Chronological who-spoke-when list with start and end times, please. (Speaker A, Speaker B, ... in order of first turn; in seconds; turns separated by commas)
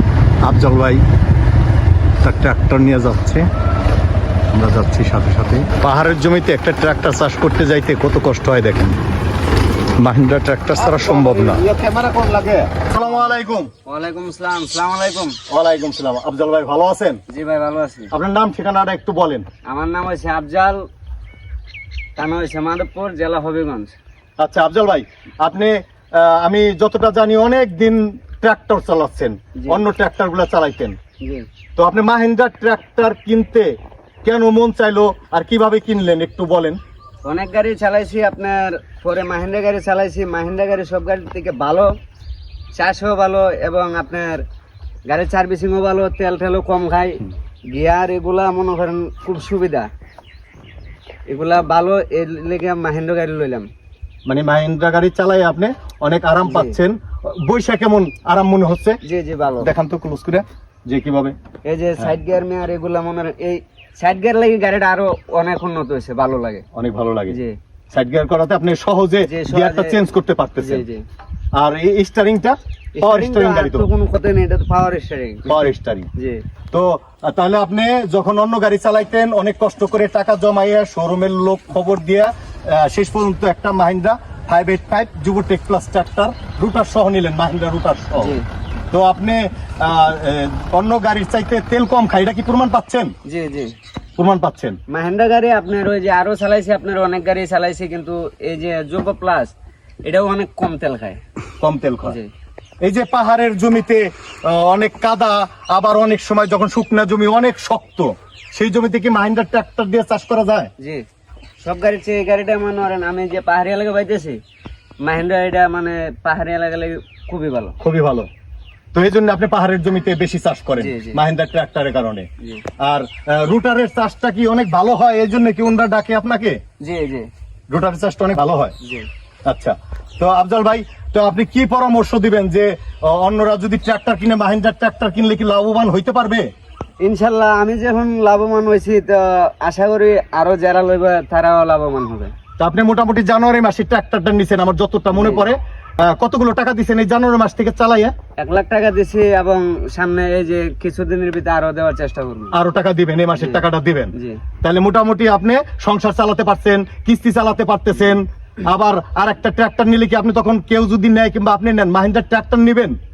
Speaker A: 0.4-1.0, Speaker A: 2.2-3.5, Speaker A: 4.5-9.0, Speaker A: 10.0-11.6, Speaker B: 10.8-15.4, Speaker A: 12.9-13.7, Speaker A: 15.5-17.2, Speaker B: 17.3-18.1, Speaker A: 18.1-19.4, Speaker B: 19.7-20.8, Speaker B: 22.2-23.9, Speaker A: 24.4-31.0, Speaker B: 29.6-29.8, Speaker B: 31.2-31.5, Speaker A: 31.8-33.7, Speaker A: 34.2-36.8, Speaker B: 37.2-41.9, Speaker B: 42.8-44.4, Speaker B: 45.1-49.9, Speaker B: 51.3-53.7, Speaker A: 54.3-59.0, Speaker B: 56.4-56.8, Speaker B: 59.0-59.7, Speaker A: 59.6-61.4, Speaker B: 61.7-66.6, Speaker A: 66.7-67.3, Speaker B: 67.3-67.5, Speaker A: 67.9-70.8, Speaker B: 69.2-70.0, Speaker B: 70.6-71.0, Speaker A: 71.5-73.9, Speaker B: 72.9-76.4, Speaker A: 75.5-76.1, Speaker A: 76.7-88.4, Speaker B: 88.2-88.4, Speaker A: 88.9-93.1, Speaker B: 93.2-93.7, Speaker A: 94.2-94.8, Speaker B: 94.9-99.5, Speaker B: 100.0-101.2, Speaker A: 101.6-102.2, Speaker B: 102.0-102.3, Speaker A: 102.8-110.7, Speaker B: 110.8-111.0, Speaker B: 111.6-114.4, Speaker B: 115.0-117.8, Speaker A: 117.8-118.3, Speaker A: 118.9-122.3, Speaker B: 120.8-121.2, Speaker A: 122.8-126.6, Speaker B: 126.8-127.3, Speaker A: 127.7-128.7, Speaker A: 129.5-136.5, Speaker B: 137.0-142.3, Speaker A: 142.6-148.1, Speaker B: 145.2-145.5, Speaker B: 148.4-152.6, Speaker A: 152.5-163.0, Speaker B: 153.3-154.4